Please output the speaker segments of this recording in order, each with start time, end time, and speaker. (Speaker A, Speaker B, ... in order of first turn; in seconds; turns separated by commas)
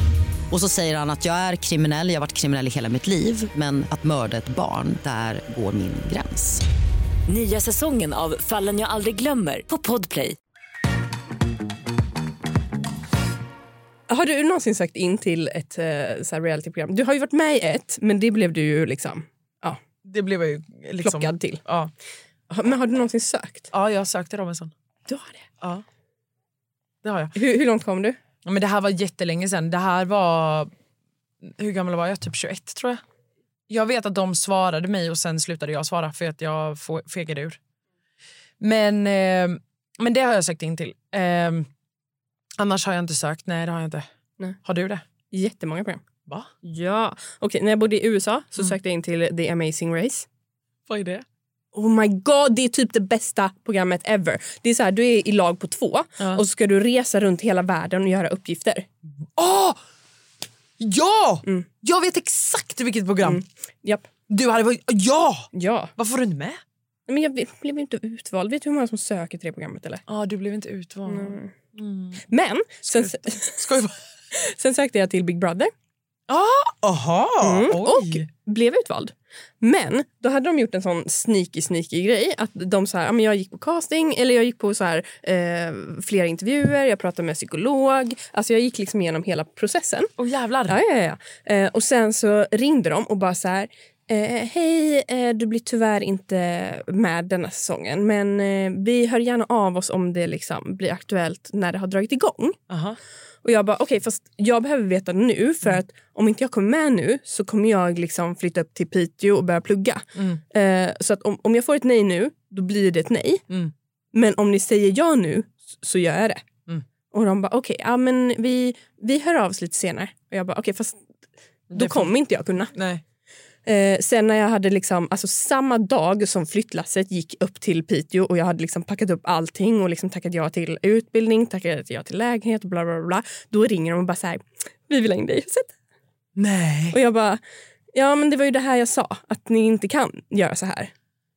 Speaker A: 0.5-6.6, Speaker B: 7.3-10.3, Speaker C: 14.1-19.8, Speaker D: 20.0-21.9, Speaker C: 21.0-21.6, Speaker C: 22.5-23.7, Speaker D: 23.7-24.7, Speaker C: 25.1-25.4, Speaker D: 27.0-27.3, Speaker C: 27.3-28.2, Speaker D: 28.4-30.7, Speaker D: 31.6-33.0, Speaker D: 33.7-37.6, Speaker D: 38.6-41.7, Speaker D: 42.6-44.0, Speaker D: 44.6-45.0, Speaker C: 45.3-46.0, Speaker C: 46.6-50.3, Speaker D: 50.9-51.2, Speaker C: 51.7-58.9, Speaker D: 59.4-59.8, Speaker D: 60.8-63.4, Speaker C: 63.2-64.1, Speaker D: 64.3-66.6, Speaker C: 65.5-65.9, Speaker C: 67.1-70.0, Speaker D: 70.1-72.2, Speaker C: 71.1-71.5, Speaker C: 72.3-73.6, Speaker D: 72.8-73.9, Speaker C: 74.3-75.7, Speaker D: 76.3-78.3, Speaker C: 77.4-90.1, Speaker D: 90.2-90.8, Speaker C: 90.7-102.6, Speaker D: 102.7-103.0, Speaker C: 103.4-113.4, Speaker C: 114.1-116.4, Speaker C: 117.1-121.0, Speaker D: 121.7-122.1, Speaker C: 121.7-122.7, Speaker D: 122.7-123.0, Speaker C: 123.7-135.7, Speaker D: 136.3-136.9, Speaker C: 136.9-137.4, Speaker C: 137.9-140.9